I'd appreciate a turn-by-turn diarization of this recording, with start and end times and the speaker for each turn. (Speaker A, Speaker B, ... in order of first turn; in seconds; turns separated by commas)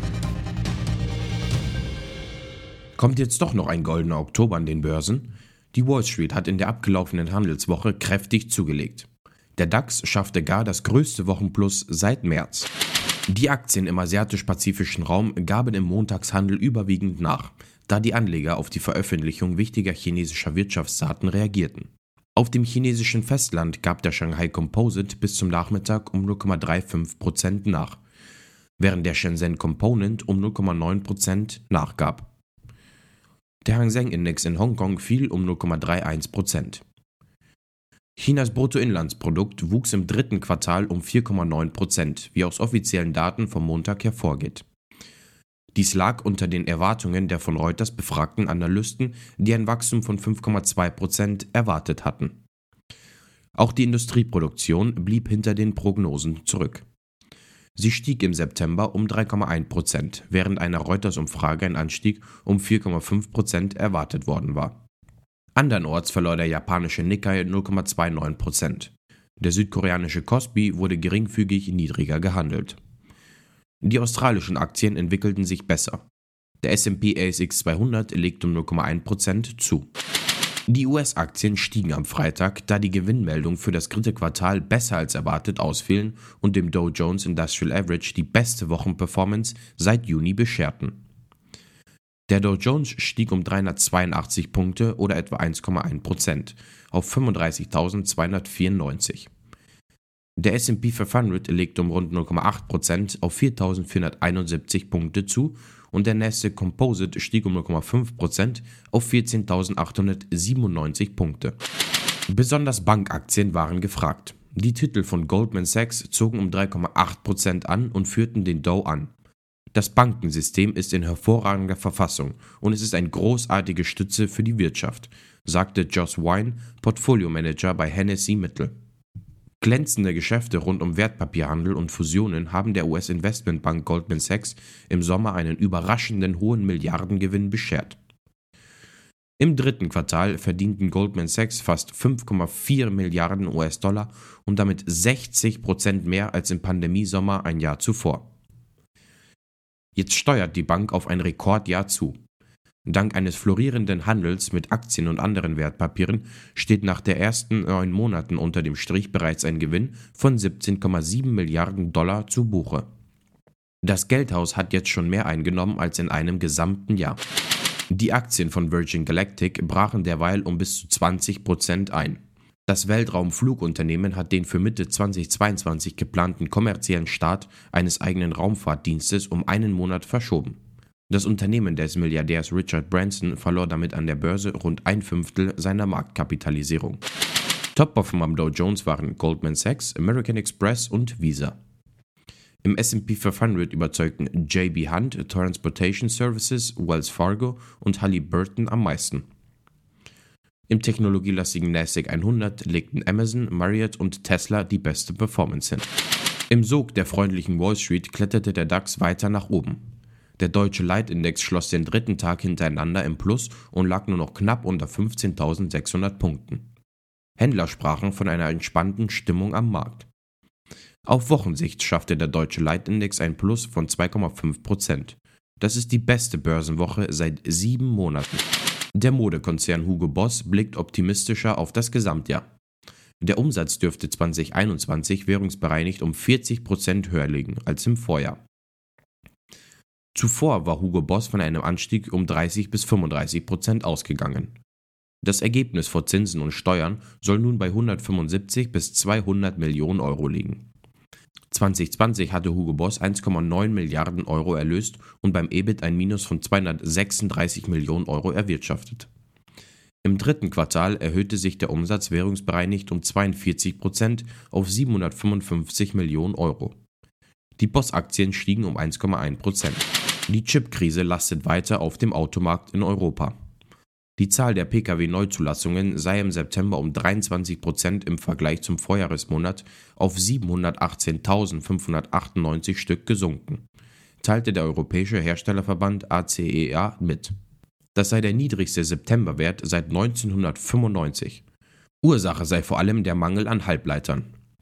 Speaker A: 3.0-12.7, Speaker A: 13.3-28.0, Speaker A: 28.8-32.3, Speaker A: 33.6-36.8, Speaker A: 38.2-44.6, Speaker A: 45.7-52.4, Speaker A: 53.5-56.8, Speaker A: 57.8-64.8, Speaker A: 65.5-72.8, Speaker A: 73.8-76.0, Speaker A: 76.6-79.9, Speaker A: 80.7-91.0, Speaker A: 92.3-99.3, Speaker A: 100.4-111.6, Speaker A: 112.3-119.1, Speaker A: 119.7-128.7, Speaker A: 129.6-138.0, Speaker A: 139.4-148.3, Speaker A: 149.9-152.2, Speaker A: 152.8-162.9, Speaker A: 163.8-167.2, Speaker A: 167.9-180.6, Speaker A: 181.1-187.0, Speaker A: 187.7-191.6, Speaker A: 192.6-199.2, Speaker A: 200.7-205.9, Speaker A: 206.5-209.8, Speaker A: 210.4-216.7, Speaker A: 217.4-220.1, Speaker A: 221.1-232.4, Speaker A: 233.2-238.4, Speaker A: 240.1-244.6, Speaker A: 245.2-250.7, Speaker A: 251.5-259.1, Speaker A: 260.0-266.8, Speaker A: 267.6-273.3, Speaker A: 274.2-283.6, Speaker A: 284.2-287.3, Speaker A: 287.9-291.4, Speaker A: 292.0-294.3